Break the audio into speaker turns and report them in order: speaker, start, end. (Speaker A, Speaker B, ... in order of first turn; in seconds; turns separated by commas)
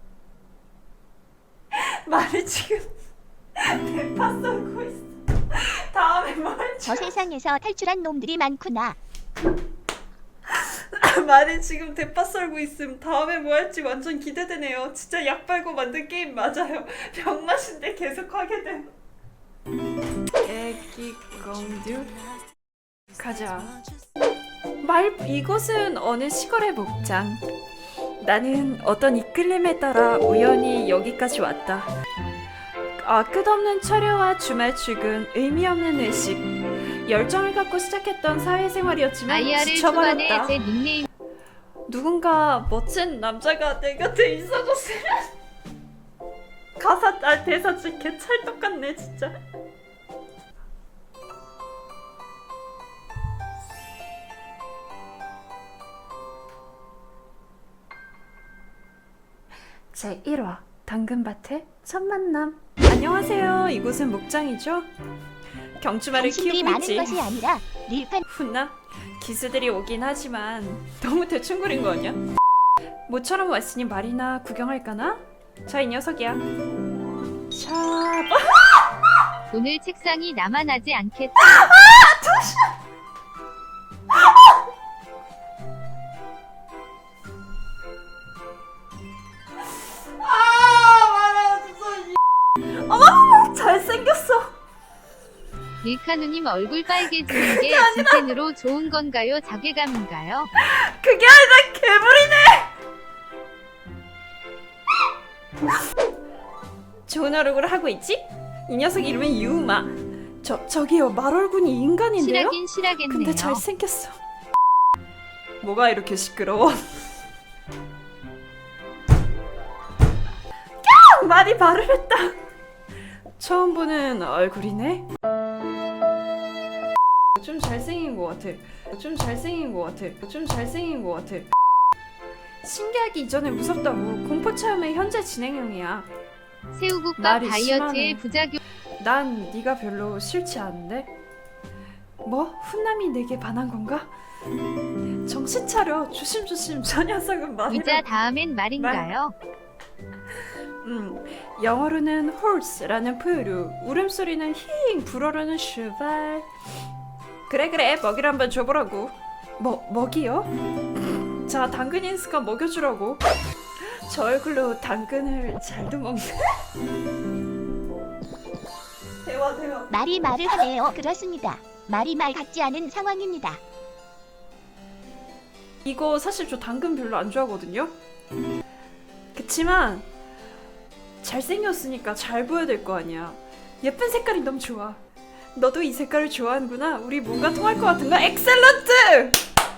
Speaker A: 1.7-2.9, Speaker A: 3.6-7.2, Speaker B: 6.9-9.0, Speaker A: 10.5-18.9, Speaker A: 20.4-22.1, Speaker A: 23.2-23.7, Speaker A: 24.8-27.4, Speaker A: 28.2-31.9, Speaker A: 33.0-40.6, Speaker C: 39.3-41.1, Speaker A: 41.9-45.3, Speaker A: 46.8-49.4, Speaker A: 59.9-64.9, Speaker A: 65.8-67.3, Speaker B: 66.2-68.2, Speaker A: 68.2-72.2, Speaker A: 73.1-76.5, Speaker A: 77.5-78.8, Speaker C: 79.5-81.5, Speaker A: 81.4-82.7, Speaker A: 90.2-94.6, Speaker C: 95.8-100.5, Speaker A: 97.3-98.3, Speaker A: 100.6-102.7, Speaker A: 107.1-114.2, Speaker C: 112.2-113.6, Speaker A: 115.6-117.0, Speaker A: 120.8-122.4, Speaker A: 123.4-125.1, Speaker A: 127.4-131.5, Speaker A: 132.6-136.1, Speaker C: 136.7-138.6, Speaker A: 137.2-138.2, Speaker A: 139.0-141.1, Speaker A: 142.2-144.1, Speaker A: 145.2-148.2, Speaker C: 147.7-149.3, Speaker A: 148.8-149.2, Speaker A: 150.8-156.5, Speaker A: 157.5-163.2, Speaker A: 163.8-166.6, Speaker A: 169.2-169.9, Speaker B: 169.9-173.6, Speaker A: 175.8-177.9, Speaker A: 179.3-180.1, Speaker A: 181.2-185.0, Speaker A: 185.6-189.4